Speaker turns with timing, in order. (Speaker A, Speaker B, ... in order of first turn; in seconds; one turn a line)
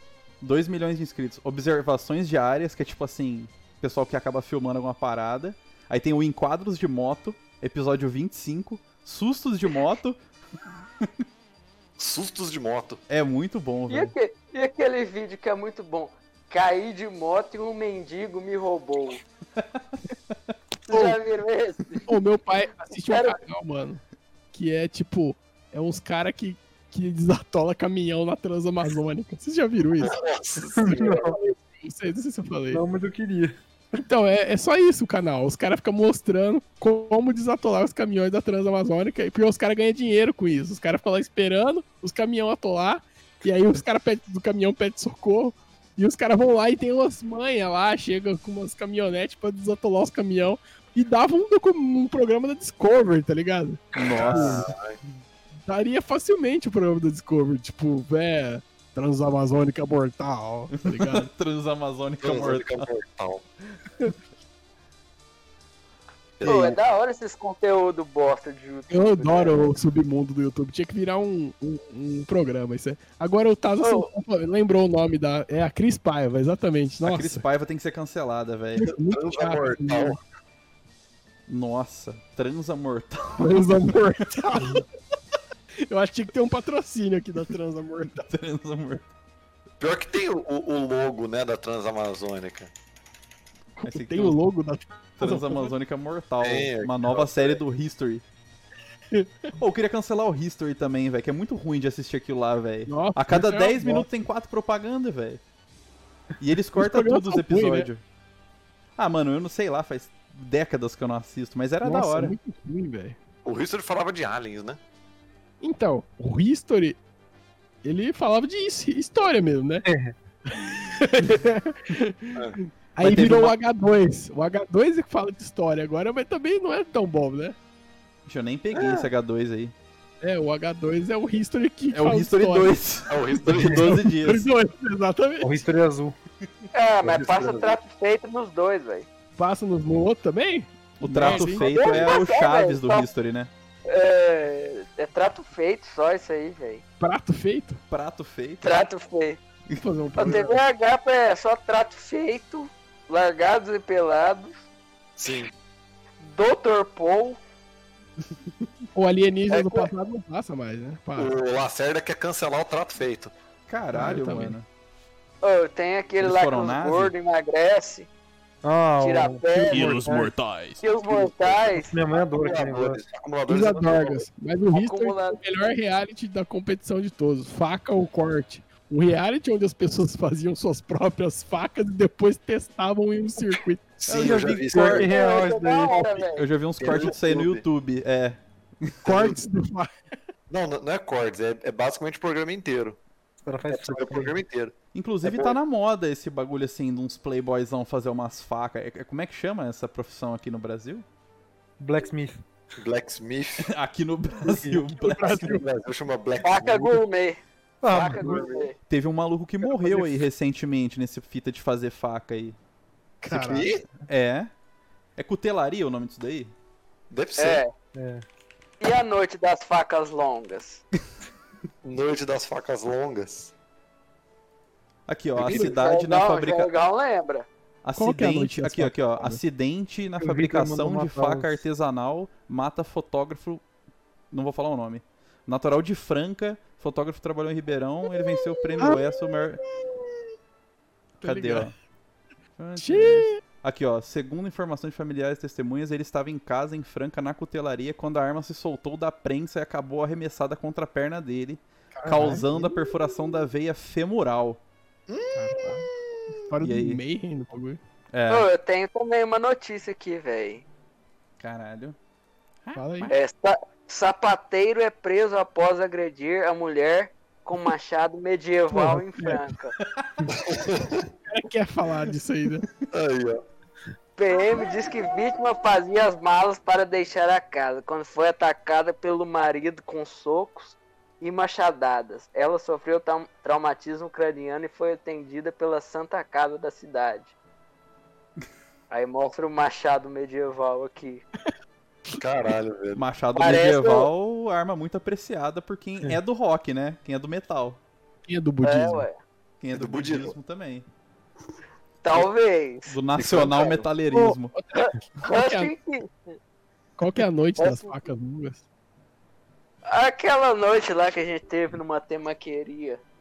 Speaker A: 0.4-10.2
Speaker B: 12.0-13.0
Speaker A: 13.1-14.1
Speaker C: 13.9-19.2
Speaker C: 20.9-22.0
Speaker D: 22.1-24.0
Speaker C: 23.0-23.4
Speaker D: 24.5-30.2
Speaker B: 30.0-31.3
Speaker E: 30.7-31.4
Speaker D: 31.1-32.8
Speaker E: 32.7-33.6
Speaker D: 33.9-54.6
Speaker A: 54.0-54.7
Speaker B: 54.1-55.0
Speaker D: 55.7-61.3
Speaker A: 60.8-62.9
Speaker B: 62.2-63.4
Speaker B: 66.4-66.8
Speaker C: 66.4-69.6
Speaker D: 68.9-77.4
Speaker C: 73.8-74.1
Speaker A: 77.0-78.9
Speaker D: 78.8-80.2
Speaker B: 78.9-80.2
Speaker A: 81.5-83.7
Speaker D: 83.4-84.9
Speaker D: 85.9-88.3
Speaker A: 88.2-89.1
Speaker B: 89.8-92.7
Speaker D: 93.8-95.7
Speaker A: 93.8-94.4
Speaker A: 95.2-98.2
Speaker B: 96.4-97.6
Speaker A: 99.6-105.4
Speaker D: 102.9-104.1
Speaker A: 106.4-108.0
Speaker D: 106.8-107.9
Speaker A: 109.0-112.3
Speaker D: 111.8-113.2
Speaker B: 113.5-114.8
Speaker D: 115.6-117.0
Speaker D: 117.8-119.8
Speaker E: 119.8-120.1
Speaker D: 120.5-127.6
Speaker A: 123.0-123.6
Speaker A: 128.2-129.7
Speaker D: 130.2-132.7
Speaker A: 131.9-134.5
Speaker B: 133.1-134.0
Speaker D: 134.0-135.6
Speaker E: 135.4-136.2
Speaker C: 136.7-139.1
Speaker B: 137.1-137.8
Speaker D: 139.4-141.7
Speaker A: 141.0-143.5
Speaker C: 141.4-143.1
Speaker C: 143.9-146.8
Speaker D: 147.0-147.8
Speaker A: 147.9-148.7
Speaker C: 148.6-149.4
Speaker A: 149.7-150.4
Speaker D: 149.8-150.6
Speaker C: 150.2-154.5
Speaker B: 155.2-155.5
Speaker C: 156.2-157.4
Speaker D: 158.9-161.3
Speaker C: 159.5-159.9
Speaker B: 161.2-163.3
Speaker A: 163.7-164.7
Speaker D: 163.9-164.6
Speaker C: 165.4-168.1
Speaker A: 166.2-167.1
Speaker E: 168.6-170.3
Speaker C: 169.0-170.0
Speaker D: 169.5-170.0
Speaker A: 170.1-170.5
Speaker C: 170.8-171.9
Speaker B: 171.0-174.3
Speaker E: 171.8-173.0
Speaker D: 173.5-183.8
Speaker C: 174.7-175.4
Speaker B: 184.0-185.2
Speaker A: 184.1-185.1
Speaker E: 184.2-186.2
Speaker C: 184.9-186.5
Speaker A: 186.3-189.0
Speaker B: 186.8-187.6
Speaker B: 189.0-189.4
Speaker D: 189.1-189.9
Speaker B: 190.5-193.0
Speaker E: 193.5-194.3
Speaker B: 193.7-195.6
Speaker A: 194.9-201.1
Speaker E: 201.8-202.4
Speaker B: 202.8-203.7
Speaker A: 203.6-205.6
Speaker E: 204.4-204.8
Speaker D: 205.0-205.6
Speaker B: 205.5-207.0
Speaker C: 206.4-207.4
Speaker E: 207.8-208.4
Speaker B: 207.9-208.7
Speaker C: 207.9-208.8
Speaker A: 208.9-212.6
Speaker D: 213.2-213.7
Speaker B: 213.3-213.9
Speaker A: 214.1-214.5
Speaker A: 215.2-216.5
Speaker B: 217.1-217.6
Speaker C: 217.4-217.7
Speaker E: 217.9-218.2
Speaker C: 218.8-220.8
Speaker B: 221.8-223.5
Speaker A: 225.1-226.7
Speaker B: 225.4-225.8
Speaker C: 225.4-227.5
Speaker A: 227.8-233.6
Speaker D: 228.0-229.4
Speaker E: 230.2-231.6
Speaker A: 234.3-239.6
Speaker D: 241.2-241.7
Speaker A: 241.2-241.7
Speaker A: 242.6-254.6
Speaker D: 242.8-243.4
Speaker D: 251.9-252.5
Speaker B: 255.1-256.2
Speaker D: 255.3-257.8
Speaker A: 256.6-257.0
Speaker A: 258.1-258.5
Speaker C: 258.3-260.6
Speaker A: 261.4-262.0
Speaker A: 262.7-263.1
Speaker D: 262.7-263.1
Speaker C: 263.1-269.8
Speaker A: 269.8-270.2
Speaker B: 270.3-271.1
Speaker D: 271.3-272.7
Speaker B: 272.9-273.4
Speaker C: 274.2-287.3
Speaker C: 288.9-291.2
Speaker B: 292.1-293.1
Speaker A: 292.9-297.8
Speaker C: 293.4-294.1
Speaker D: 298.3-299.1
Speaker C: 298.6-299.2
Speaker A: 299.6-300.9
Speaker B: 299.7-300.3
Speaker C: 302.0-303.6
Speaker A: 302.9-304.5
Speaker B: 303.2-303.8
Speaker D: 304.1-305.7
Speaker C: 304.7-306.4
Speaker D: 307.0-308.6
Speaker C: 307.6-308.0
Speaker C: 309.9-313.0